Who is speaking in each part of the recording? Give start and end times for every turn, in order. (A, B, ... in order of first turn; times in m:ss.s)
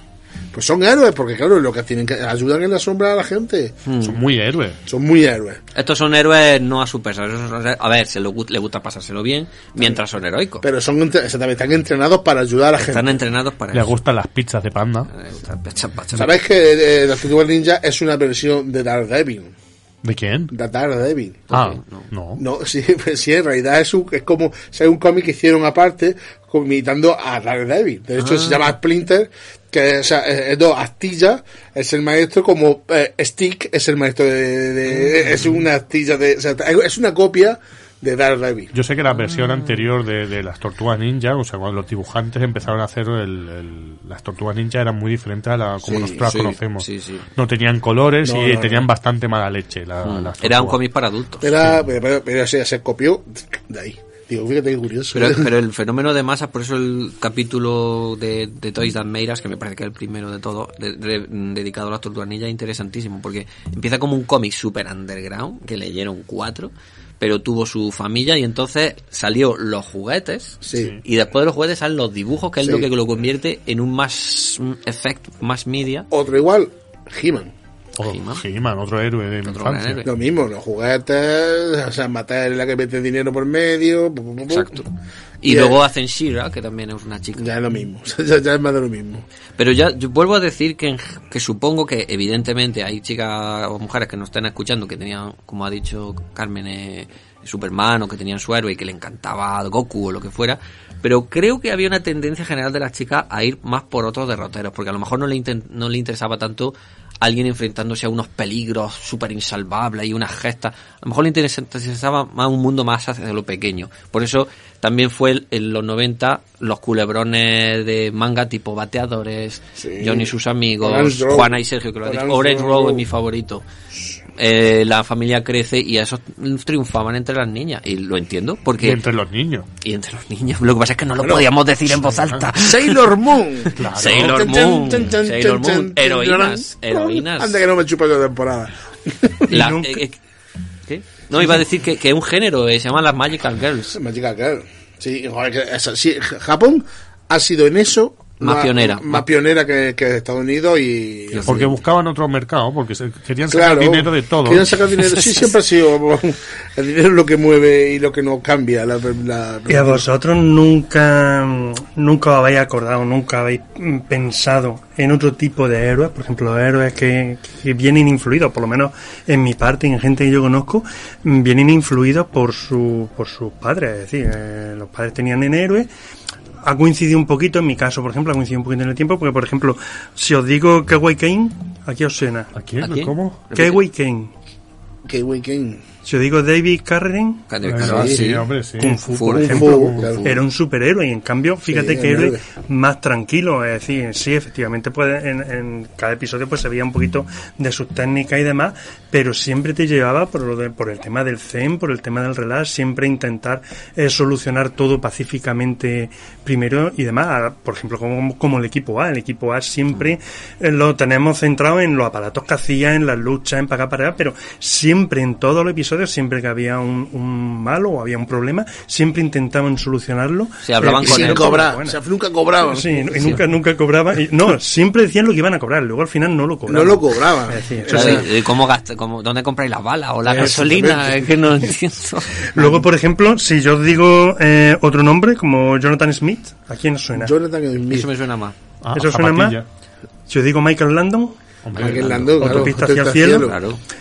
0:00.5-0:03.8 A
0:03.9-0:04.2 B
0:04.0-0:04.8 C
0:04.9-0:05.6 A
0:05.8-0:10.6 B
0:10.6-0:13.2 A
0:12.8-0:14.0 B
0:13.7-0:15.1 C
0:15.1-0:16.4 B
0:16.2-0:19.5 A
0:20.0-0:20.5 C
0:20.5-0:21.5 A
0:21.5-0:22.1 B
0:21.5-0:22.4 C
0:22.4-0:38.7 A
0:28.2-0:28.7 B
0:38.7-0:50.8 C
0:39.3-0:39.8 B
0:45.8-0:46.2 A
0:46.2-0:47.3 B
0:48.2-0:48.9 A
0:50.0-0:51.6 B
0:51.4-0:55.5 A
0:55.1-1:16.1 B
1:10.6-1:11.0 A
1:12.6-1:12.9 A
1:16.1-1:17.5 A
1:18.0-1:20.1 C
1:18.0-1:18.4 B
1:19.4-1:20.1 B
1:20.0-1:24.8 A
1:24.5-1:24.8 B
1:25.4-1:27.5 B
1:25.4-1:25.8 A
1:27.4-1:29.2 A
1:29.6-2:03.6 B
1:59.8-2:03.0 A
2:04.4-2:09.0 B
2:08.8-2:09.7 C
2:09.8-2:13.1 B
2:11.2-2:11.5 A
2:11.9-2:12.5 C
2:12.5-2:19.5 A
2:13.7-2:14.6 C
2:13.8-2:17.6 B
2:19.5-2:20.0 D
2:19.5-2:20.2 B
2:20.9-2:24.0 B
2:23.9-2:31.7 A
2:28.4-2:29.2 B
2:31.3-2:31.6 B
2:31.5-2:34.7 C
2:33.5-2:40.0 A
2:39.7-2:55.9 D
2:56.6-3:02.5 D
3:02.5-3:03.4 C
3:02.8-3:03.8 B
3:03.5-3:04.3 D
3:05.1-3:05.8 A
3:06.0-3:07.4 D
3:07.5-3:08.5 B
3:07.6-3:10.1 C
3:07.8-3:08.2 A
3:08.8-3:42.0 D
3:09.1-3:10.4 B
3:09.3-3:10.3 A
3:11.6-3:12.4 A
3:40.6-3:41.7 B
3:40.9-3:43.4 A
3:42.6-3:48.3 D
3:43.2-3:43.4 B
3:46.7-3:48.3 A
3:47.9-3:52.4 B
3:50.2-3:51.4 A
3:52.5-3:52.8 A
3:52.6-3:57.3 D
3:57.2-3:58.1 A
3:57.9-3:58.6 B
3:58.8-3:59.7 C
3:59.0-3:59.6 D
4:00.3-4:01.4 D
4:01.6-4:02.6 C
4:01.7-4:03.6 A
4:02.4-4:03.5 D
4:03.3-4:03.8 B